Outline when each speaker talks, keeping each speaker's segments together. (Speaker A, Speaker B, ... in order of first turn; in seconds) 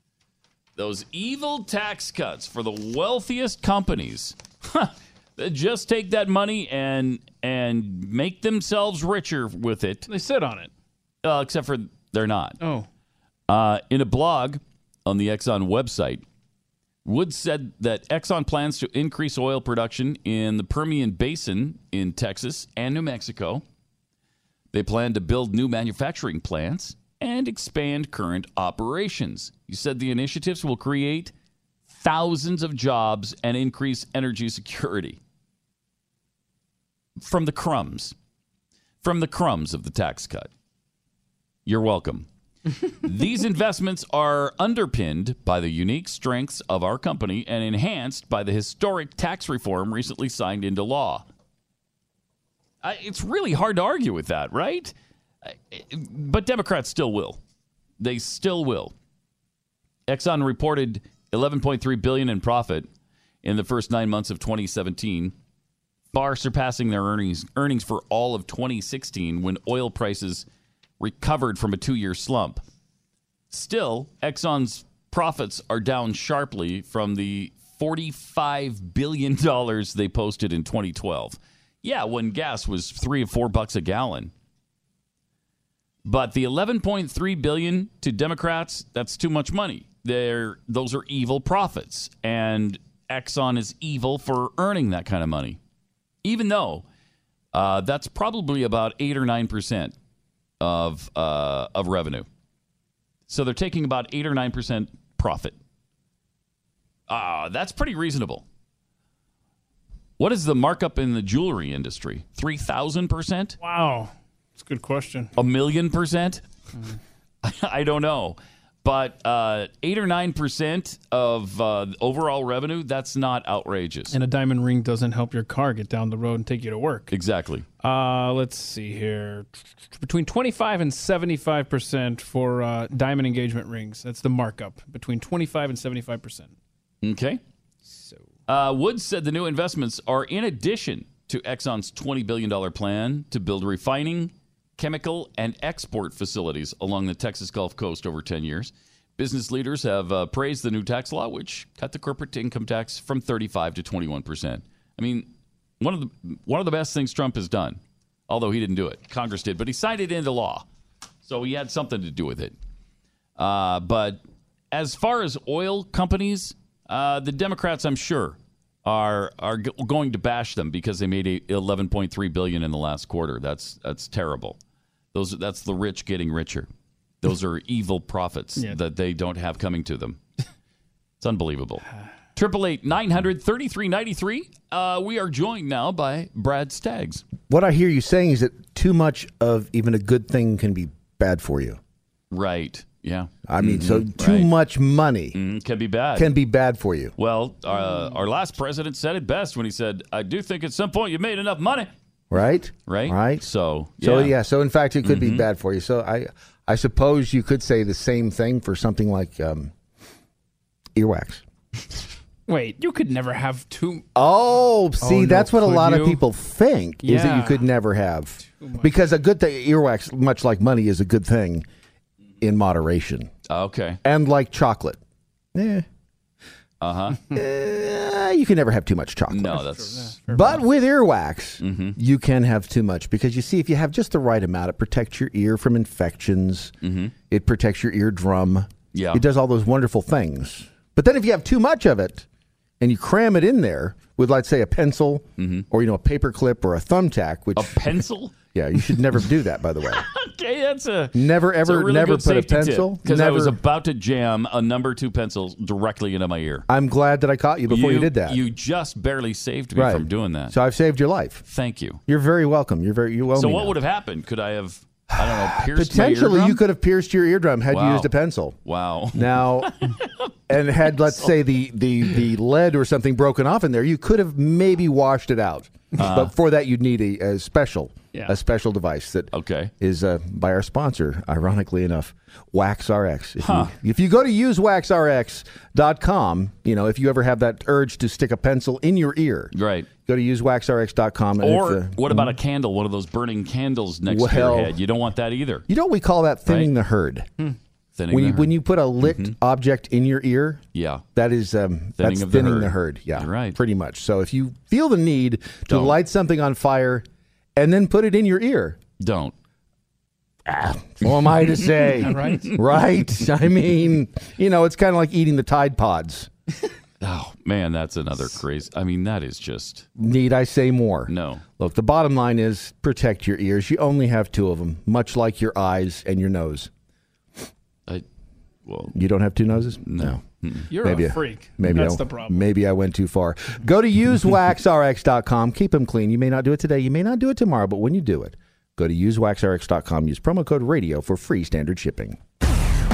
Speaker A: 0.8-10.1, 11.2-12.6, 13.5-16.2, 17.1-23.6, 24.7-31.3, 31.9-35.2, 37.2-38.1, 39.0-40.5, 41.7-42.3, 43.0-51.3, 52.8-54.9, 55.5-57.4, 58.0-58.9, 60.1-62.9, 63.4-65.3, 66.1-70.5, 71.0-72.6, 73.5-84.3, 86.0-95.6, 96.2-96.8, 97.5-100.0, 100.6-102.3, 103.3-105.6, 107.1-108.5, 110.2-113.6, 115.4-116.4, 117.4-124.2, 127.1-127.7, 137.0-137.4, 138.5-160.7, 161.2-162.6, 163.4-174.6, 175.1-176.7, 177.2-180.2, 181.2-187.2, 192.3-194.5, 195.3-196.3, 197.2-201.9, 202.9-204.3, 205.0-205.5, 223.5-224.0, 226.8-227.2, 229.3-230.2, 231.6-231.9, 236.8-237.1, 238.9-239.2, 245.4-245.6, 247.6-248.3, 250.1-256.6, 257.7-260.5, 261.5-262.0, 263.3-266.6, 267.7-268.1, 268.6-270.2, 271.0-271.3, 276.0-276.3, 279.3-279.7, 283.4-283.7, 289.5-289.9, 291.4-295.6, 298.0-299.3, 300.7-301.0, 302.0-303.6, 305.7-306.0, 309.0-309.3, 312.0-312.5, 317.0-319.9, 321.1-321.4, 328.7-328.9, 329.8-330.7
Speaker B: 10.1-10.7, 12.6-12.9, 113.6-115.3, 124.1-127.1, 127.8-136.5, 137.9-138.2, 212.5-214.1, 215.0-216.2, 217.0-217.7, 218.6-218.9, 229.6-230.7, 312.0-312.5, 330.7-332.4
Speaker C: 187.5-191.8, 193.5-195.4, 196.2-197.1, 202.3-203.4, 204.0-209.7, 210.9-211.4, 214.2-221.6, 222.4-223.3, 224.0-225.0, 225.6-225.8, 227.3-229.6, 230.3-236.7, 237.3-242.3, 242.8-248.0, 248.6-250.0, 251.1-253.6, 256.7-258.4, 259.7-261.4, 262.1-263.7, 265.2-268.6, 269.1-269.7, 270.5-289.5, 290.1-292.4, 294.1-294.7, 295.7-297.3, 298.1-300.6, 301.2-307.1, 307.6-308.8, 310.5-316.3, 320.0-326.7, 328.9-342.2